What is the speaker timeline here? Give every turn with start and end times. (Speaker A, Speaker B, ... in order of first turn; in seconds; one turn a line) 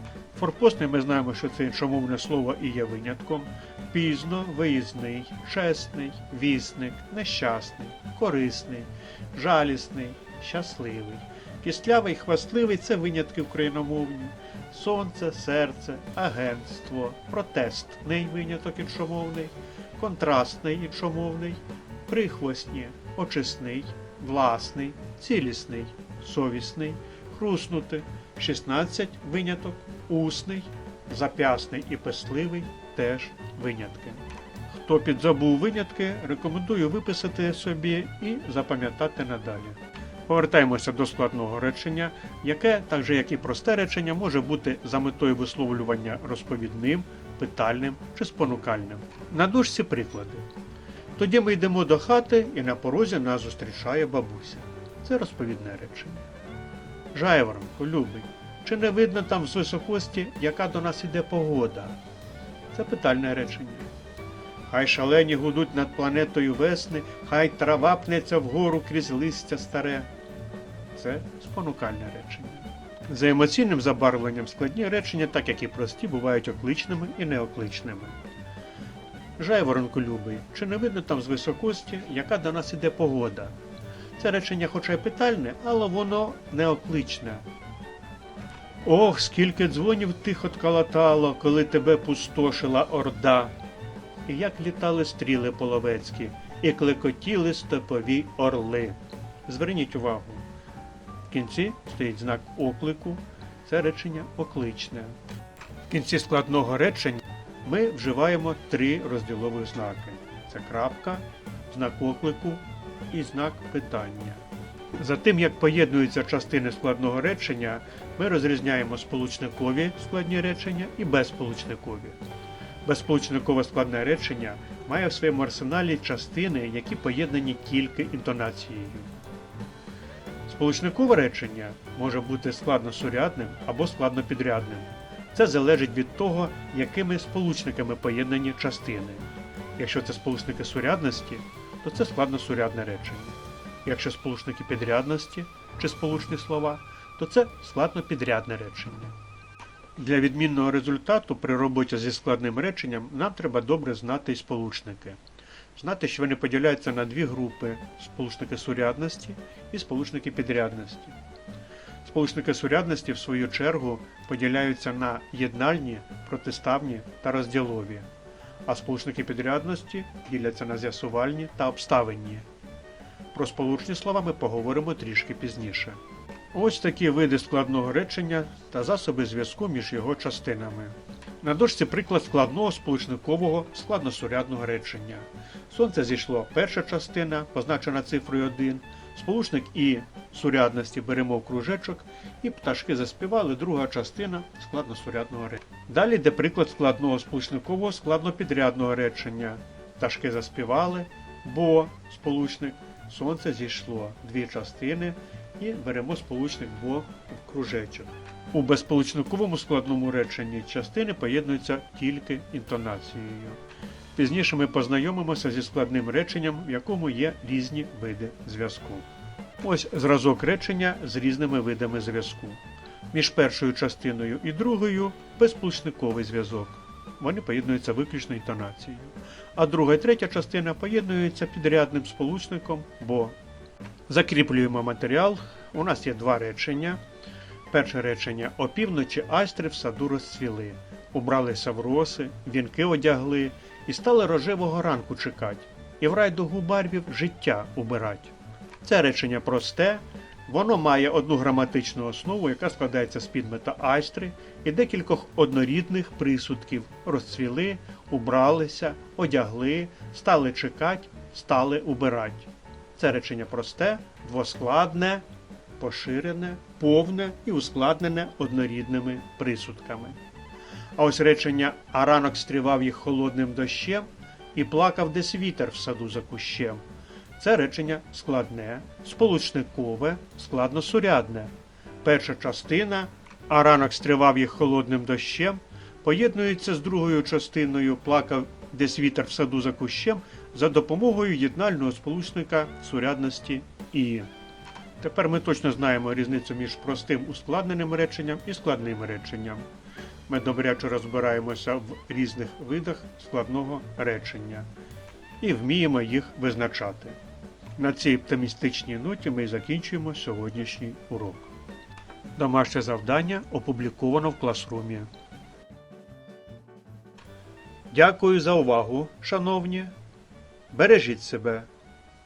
Speaker A: 0.3-50.5
Speaker A: 51.2-56.2
Speaker A: 57.1-62.0
Speaker A: 62.7-63.9
Speaker A: 64.7-70.1
Speaker A: 71.0-78.2
Speaker A: 79.4-83.5
Speaker A: 84.2-87.5
Speaker A: 88.8-93.5
Speaker A: 94.3-100.5
Speaker A: 101.3-105.2
Speaker A: 105.9-114.4
Speaker A: 115.0-122.2
Speaker A: 122.8-129.1
Speaker A: 130.5-149.2
Speaker A: 150.0-155.2
Speaker A: 155.8-161.2
Speaker A: 162.0-168.1
Speaker A: 168.7-172.4
Speaker A: 173.3-176.0
Speaker A: 176.5-213.6
Speaker A: 214.2-219.1
Speaker A: 219.6-222.6
Speaker A: 223.1-233.4
Speaker A: 234.1-237.0
Speaker A: 237.7-265.2
Speaker A: 265.8-270.2
Speaker A: 271.0-276.8
Speaker A: 277.4-281.5
Speaker A: 282.0-294.3
Speaker A: 295.0-299.6
Speaker A: 300.3-304.7
Speaker A: 305.4-307.2
Speaker A: 307.8-311.5
Speaker A: 312.4-315.1
Speaker A: 317.9-319.9
Speaker A: 320.7-321.7